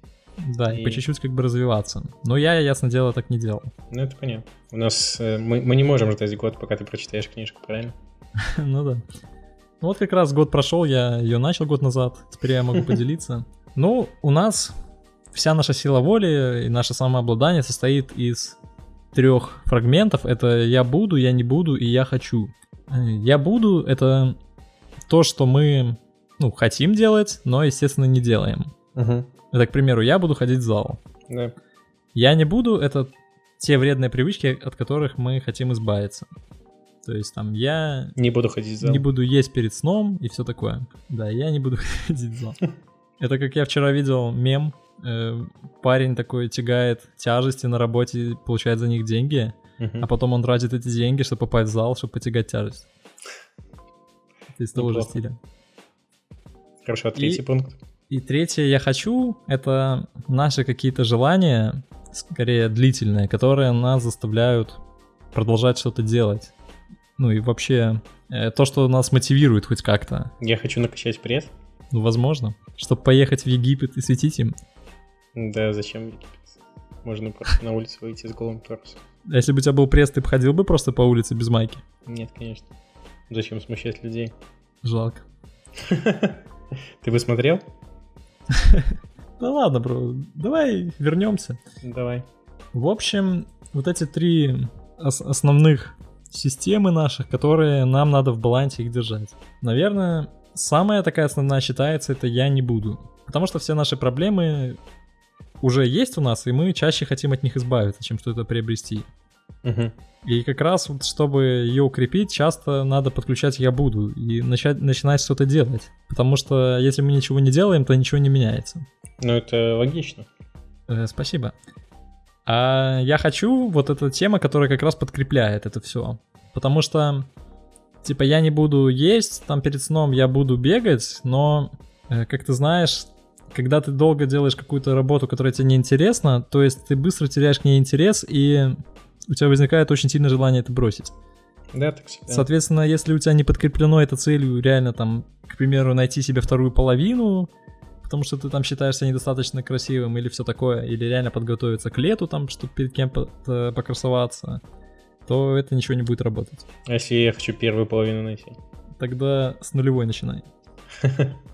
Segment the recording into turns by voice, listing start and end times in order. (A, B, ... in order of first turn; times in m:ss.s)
0:00.4-0:03.7 A
0:00.7-0:01.0 B
0:03.9-0:07.9 B
0:08.4-0:09.0 A
0:09.8-0:14.7 A
0:15.3-0:18.6 A
0:19.1-0:24.4 A
0:25.1-0:28.7 A
0:28.9-0:29.3 B
0:29.5-0:31.0 A
0:31.3-0:31.5 B
0:32.1-0:36.3 A
0:37.0-0:38.2 A
0:38.2-0:39.0 B
0:38.8-0:42.6 A
0:43.2-0:52.9 A
0:49.8-0:50.1 B
0:54.5-0:55.4 A
0:54.8-0:55.1 B
0:56.8-0:57.8 B
0:57.2-0:57.4 A
0:58.1-1:04.8 A
1:05.3-1:06.5 A
1:07.2-1:10.3 A
1:10.4-1:11.5 B
1:11.9-1:14.5 A
1:15.3-1:19.0 B
1:19.3-1:21.8 A
1:22.0-1:22.7 B
1:23.3-1:24.3 B
1:24.8-1:25.2 A
1:25.8-1:26.4 B
1:27.0-1:27.6 B
1:28.5-1:31.6 A
1:31.8-1:32.2 B
1:32.7-1:44.8 A
1:45.6-1:49.1 A
1:49.6-1:49.9 B
1:50.2-1:58.8 A
1:59.2-2:00.2 B
2:00.9-2:01.5 A
2:02.4-2:07.3 A
2:08.0-2:18.8 A
2:19.3-2:21.1 A
2:21.7-2:22.5 B
2:22.3-2:27.5 A
2:28.0-2:34.6 A
2:35.2-2:36.6 A
2:36.9-2:38.6 B
2:39.0-2:40.5 A
2:41.0-2:41.4 B